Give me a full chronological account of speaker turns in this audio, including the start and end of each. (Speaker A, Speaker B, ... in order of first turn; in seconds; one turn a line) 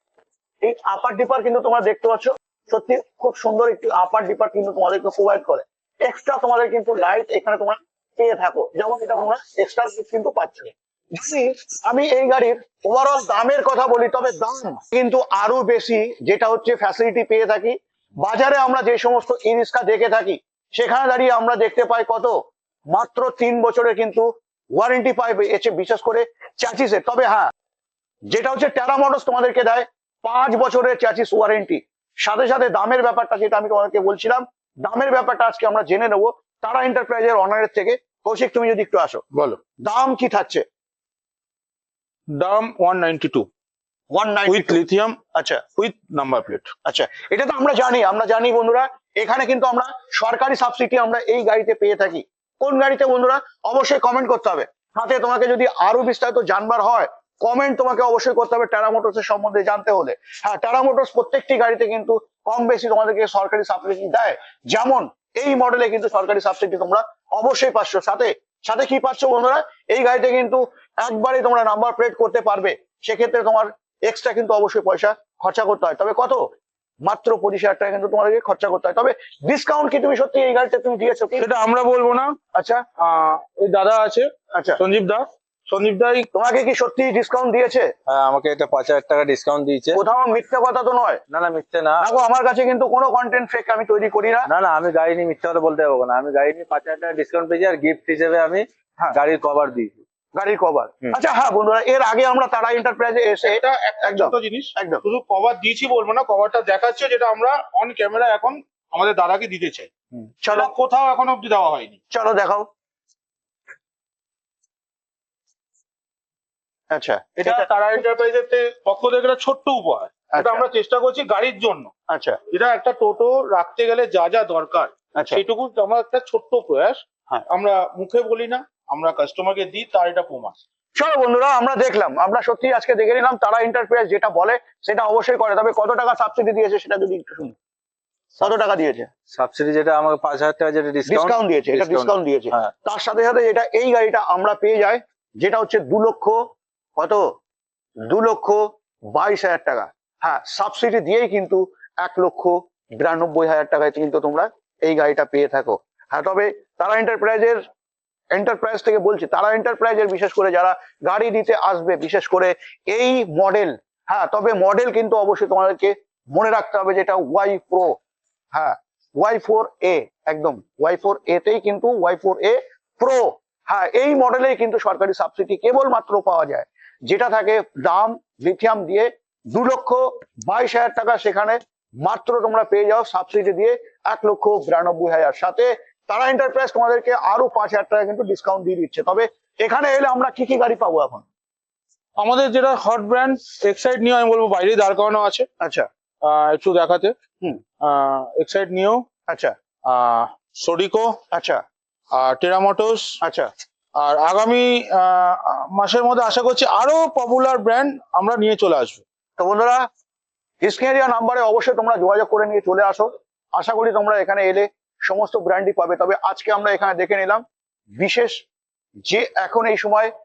Speaker A: 0.6-22.4
Speaker A: 22.9-27.5
Speaker A: 28.3-39.2
Speaker B: 39.3-39.6
Speaker A: 39.8-40.6
Speaker B: 42.3-43.5
Speaker A: 44.1-44.8
Speaker B: 44.5-45.2
Speaker A: 45.3-45.6
Speaker B: 45.8-46.7
Speaker A: 46.8-76.4
Speaker A: 77.0-81.5
Speaker B: 81.4-82.3
Speaker A: 82.5-82.8
Speaker B: 83.0-86.3
Speaker A: 84.5-84.8
Speaker A: 86.3-87.9
Speaker C: 88.1-90.0
Speaker A: 89.9-91.2
Speaker C: 91.3-92.0
Speaker A: 92.0-94.5
Speaker C: 94.4-100.0
Speaker A: 100.3-105.0
Speaker B: 103.5-109.9
Speaker A: 110.2-110.7
Speaker B: 110.5-112.0
Speaker A: 112.1-112.7
Speaker A: 116.9-117.7
Speaker B: 117.4-121.9
Speaker A: 120.3-120.6
Speaker A: 122.1-122.4
Speaker B: 122.5-130.6
Speaker A: 125.2-125.4
Speaker A: 131.0-137.5
Speaker A: 138.4-139.1
Speaker C: 139.3-142.7
Speaker A: 141.1-146.4
Speaker A: 147.0-147.2
Speaker A: 148.1-157.6
Speaker A: 158.3-168.0
Speaker A: 168.5-191.2
Speaker B: 192.2-195.4
Speaker A: 195.6-195.9
Speaker B: 196.2-197.1
Speaker B: 197.8-199.0
Speaker A: 199.3-199.5
Speaker B: 199.8-201.2
Speaker A: 201.3-201.6
Speaker B: 202.1-203.2
Speaker A: 203.2-203.5
Speaker B: 204.0-209.0
Speaker A: 209.4-209.8
Speaker A: 210.6-217.4
Speaker A: 218.0-218.4
Speaker A: 219.0-220.1